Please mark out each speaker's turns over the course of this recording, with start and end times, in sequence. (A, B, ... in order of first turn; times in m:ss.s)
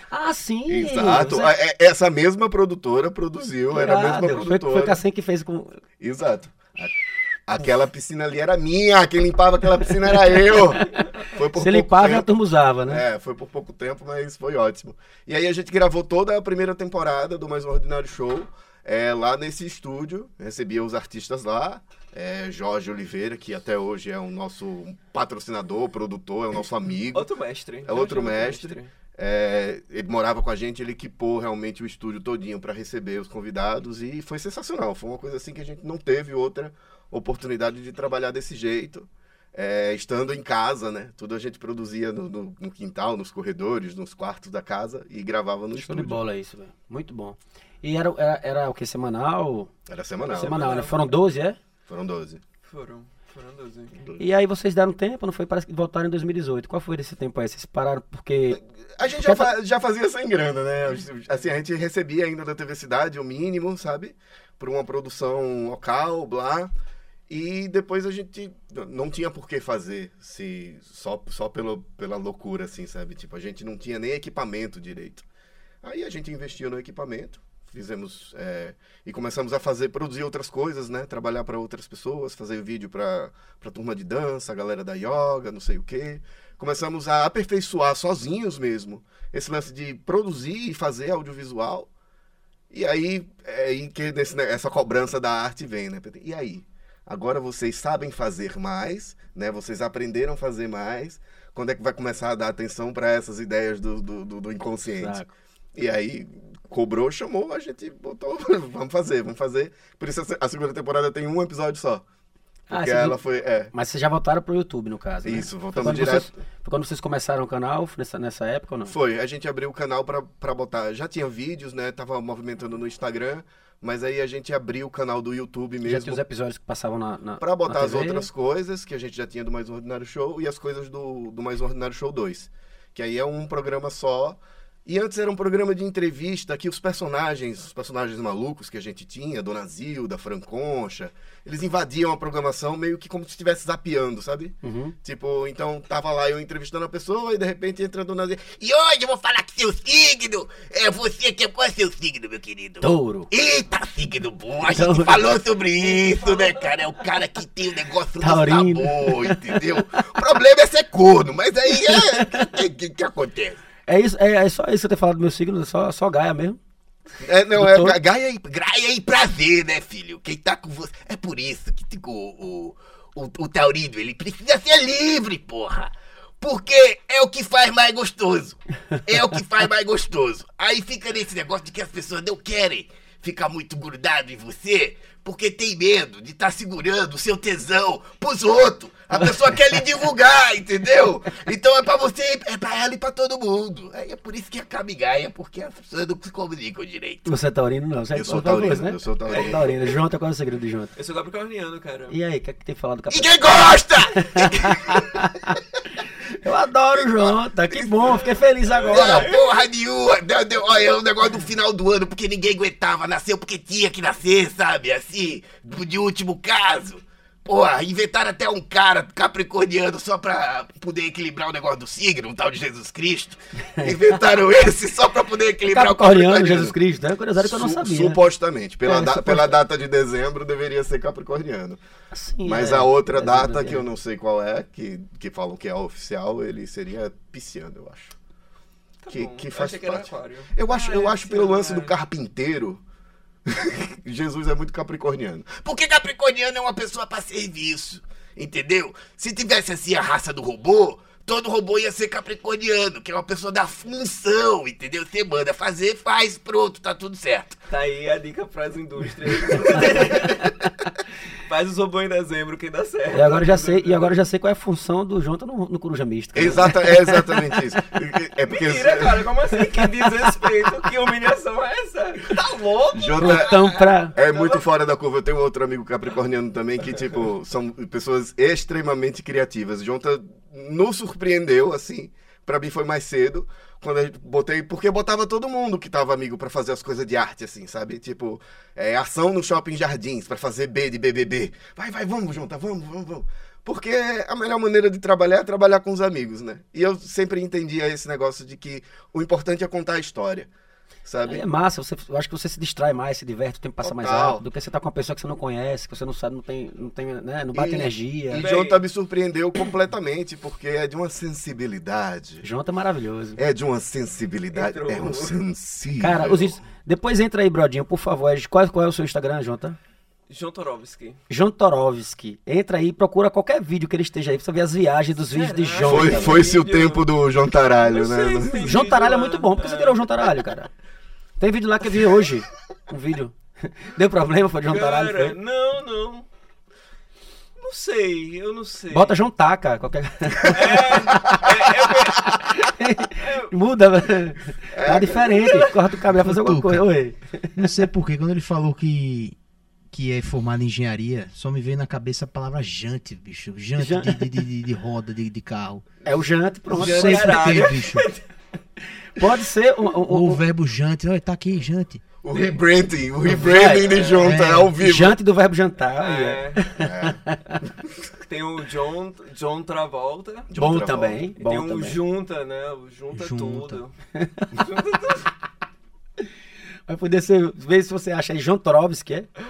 0:00.1-0:01.6 A
0:00.7-0:05.0 B
0:03.7-0:05.8 A
0:06.0-0:07.0 B
0:07.5-0:12.3 B
0:11.6-0:13.0 A
0:12.9-0:27.3 B
0:27.1-0:28.9 C
0:27.9-0:46.2 B
0:45.8-0:49.7 A
0:49.9-0:50.8 B
0:50.3-0:51.1 C
0:50.3-0:51.6 A
0:51.9-0:52.4 B
0:52.6-0:53.9 C
0:54.0-0:54.2 B
0:54.2-0:58.6 A
0:58.9-1:06.7 B
0:59.2-0:59.5 A
1:07.3-1:15.2 B
1:15.8-1:31.9 B
1:32.7-1:45.2 B
1:45.0-1:45.3 A
1:45.8-1:52.0 B
1:52.7-1:53.2 A
1:52.7-1:53.7 B
1:53.7-1:59.0 A
1:55.2-1:56.4 B
1:58.9-2:06.2 B
2:05.8-2:08.3 A
2:07.4-2:43.6 B
2:24.6-2:25.0 A
2:32.8-2:33.3 A
2:34.6-2:35.4 A
2:35.8-2:36.6 C
2:38.2-2:39.6 A
2:41.8-2:42.5 A
2:43.9-2:46.6 A
2:47.2-3:17.3 B
2:47.6-2:48.0 A
3:17.3-3:20.9 A
3:18.1-3:19.9 B
3:21.0-3:22.2 C
3:22.1-3:25.6 A
3:23.1-3:25.6 B
3:26.4-3:29.3 A
3:26.9-3:28.2 B
3:28.1-3:29.5 C
3:28.9-3:46.8 B
3:45.7-3:48.2 A
3:47.4-3:51.8 B
3:48.8-3:49.6 A
3:52.1-3:53.8 A
3:52.4-3:58.2 B
3:59.0-4:02.0 C
3:59.1-4:02.8 B
4:03.5-4:17.6 B
4:17.7-4:20.5 C
4:19.5-4:20.3 B
4:19.5-4:20.0 A
4:21.3-4:24.2 C
4:23.1-4:27.6 A
4:26.4-4:29.2 B
4:28.5-4:34.6 C
4:29.7-4:30.4 A
4:32.9-4:33.5 B
4:33.2-4:34.1 A
4:34.2-5:00.5 B
5:01.0-5:01.4 B
5:01.2-5:08.5 A
5:03.8-5:04.4 B
5:07.5-5:12.4 B
5:08.4-5:08.8 C
5:12.4-5:13.4 A
5:13.4-5:16.6 B
5:14.5-5:15.4 C
5:16.0-5:19.8 A
5:20.3-5:21.2 C
5:21.3-5:26.5 A
5:25.3-5:27.1 C
5:25.8-5:28.8 B
5:27.8-5:30.1 C
5:28.5-5:30.7 A
5:31.4-5:35.4 A
5:34.7-5:36.3 C
5:37.6-5:39.2 C
5:38.9-5:41.6 A
5:40.5-5:42.5 C
5:42.6-5:47.9 A
5:43.2-5:43.5 C
5:44.7-5:45.6 B
5:45.0-5:45.7 C
5:46.1-5:46.9 D
5:47.6-5:49.4 D
5:49.9-5:55.9 D
5:53.8-5:54.3 A
5:56.0-5:57.7 A
5:56.7-5:58.1 D
5:56.8-5:58.2 C
5:59.2-6:00.4 A
6:00.1-6:02.0 D
6:02.2-6:05.2 B
6:02.3-6:02.6 C
6:03.3-6:04.2 A
6:03.5-6:04.4 C
6:04.2-6:04.7 D
6:04.8-6:07.6 A
6:06.0-6:06.7 C
6:06.8-6:07.2 B
6:08.2-6:10.5 C
6:10.5-6:11.3 B
6:10.6-6:12.0 A
6:11.4-6:13.9 C
6:13.1-6:13.8 D
6:14.2-6:14.5 A
6:14.5-6:15.3 C
6:16.9-6:19.3 A